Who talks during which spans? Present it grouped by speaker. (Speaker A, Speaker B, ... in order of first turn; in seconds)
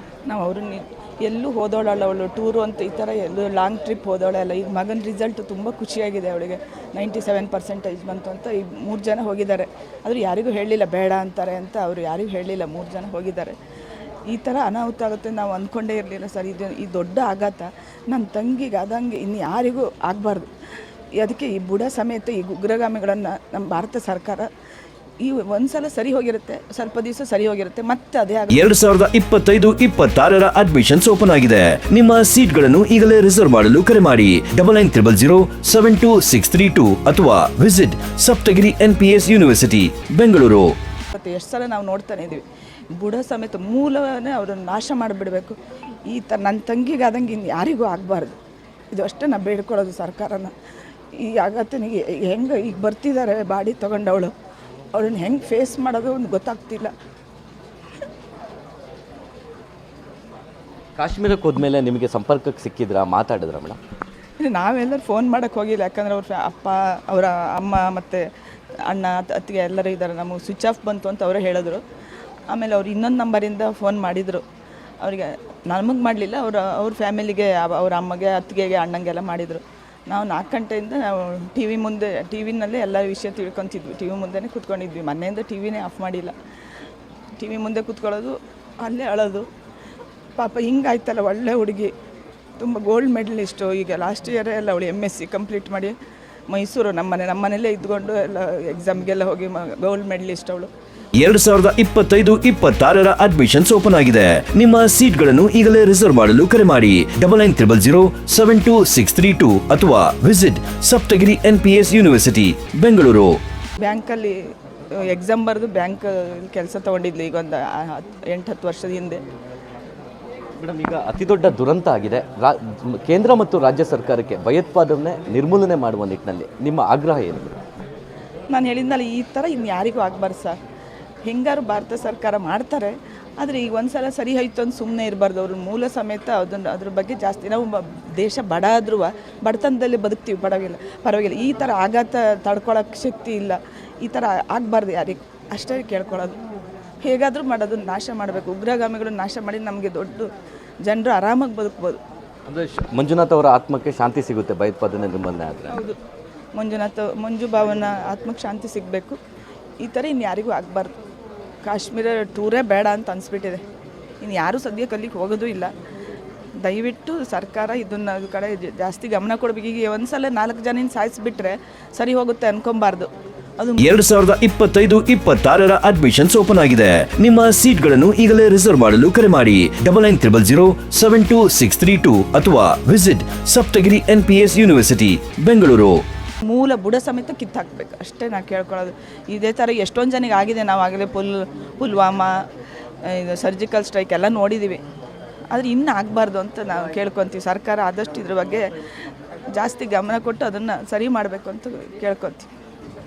Speaker A: 0.3-13.6, 14.3-20.5, 21.2-24.5, 25.2-28.7, 41.1-42.5, 43.0-48.4, 48.9-50.5, 51.1-54.3, 54.9-56.9, 64.4-68.2, 68.9-71.8, 72.5-74.5, 75.0-86.4, 87.4-89.5, 90.4-91.9, 92.6-96.0, 96.5-100.7, 113.8-119.2, 128.5-130.6, 131.3-146.4, 147.0-150.3, 150.9-152.0, 155.7-156.0, 156.6-159.2, 159.8-160.9, 161.7-163.6, 164.2-165.7, 166.6-173.9, 186.4-192.3, 193.0-194.8, 195.5-198.7, 199.5-202.5
Speaker B: 28.5-40.7, 101.2-113.4, 173.8-186.0
Speaker C: 61.0-63.8, 120.6-127.6, 152.5-155.8